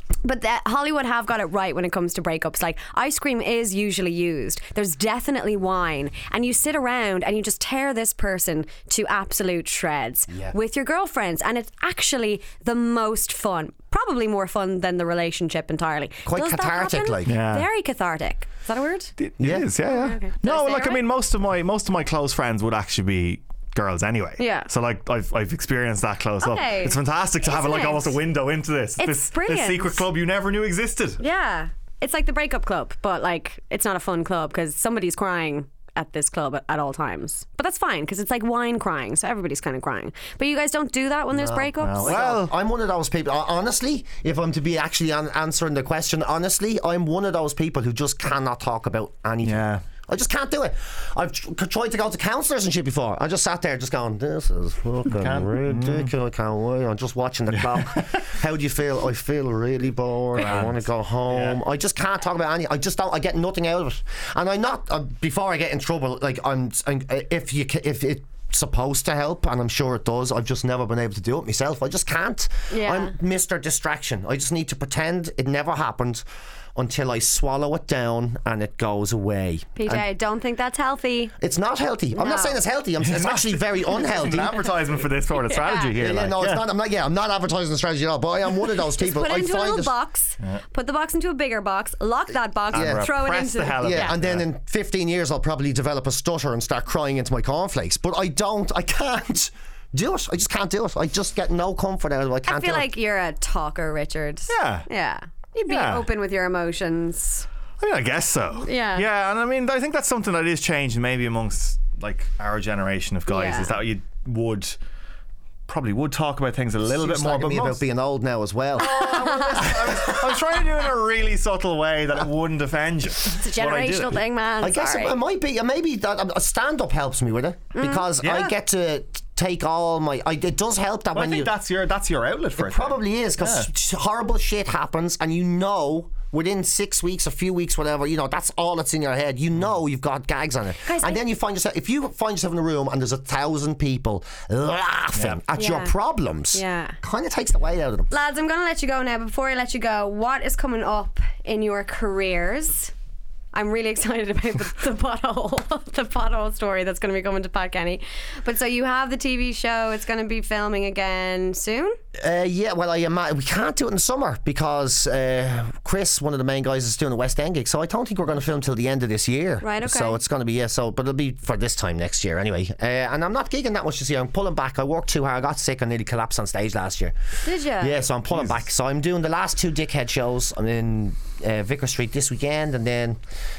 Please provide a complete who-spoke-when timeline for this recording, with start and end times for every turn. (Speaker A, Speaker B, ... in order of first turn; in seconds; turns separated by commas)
Speaker A: 0.2-19.1, Speaker B: 10.3-10.5, Speaker B: 16.3-17.4, Speaker C: 17.3-17.7, Speaker C: 19.2-31.2, Speaker B: 19.4-19.7, Speaker A: 19.9-21.0, Speaker A: 24.4-24.7, Speaker A: 26.4-28.2, Speaker A: 29.0-30.1, Speaker A: 31.2-42.4, Speaker B: 41.3-76.2, Speaker C: 41.8-42.5, Speaker C: 49.4-49.8, Speaker C: 55.1-56.1, Speaker C: 57.5-58.3, Speaker C: 60.4-61.6, Speaker A: 72.7-73.2, Speaker B: 76.8-80.0, Speaker A: 79.8-81.3, Speaker B: 81.4-84.7, Speaker A: 82.2-82.6, Speaker C: 83.0-86.7, Speaker A: 85.3-85.9, Speaker B: 86.0-89.9, Speaker A: 89.0-94.2, Speaker C: 92.7-94.5, Speaker B: 92.7-93.1, Speaker B: 93.8-102.9, Speaker A: 102.5-107.5, Speaker C: 104.5-104.9, Speaker C: 105.7-106.1, Speaker C: 107.8-114.8, Speaker A: 108.6-109.0, Speaker A: 113.3-113.7, Speaker C: 115.7-117.8, Speaker B: 116.8-120.4, Speaker C: 118.8-124.2, Speaker A: 118.8-119.7, Speaker A: 123.3-125.2, Speaker B: 124.6-131.5, Speaker A: 127.8-128.1, Speaker C: 128.2-128.5, Speaker C: 131.1-133.7, Speaker B: 132.6-148.1, Speaker A: 140.8-141.2, Speaker A: 145.6-145.9, Speaker A: 146.5-147.0, Speaker A: 148.1-152.9, Speaker A: 153.5-162.0, Speaker B: 162.2-177.2, Speaker A: 169.6-170.2, Speaker A: 177.4-178.0, Speaker B: 177.8-183.2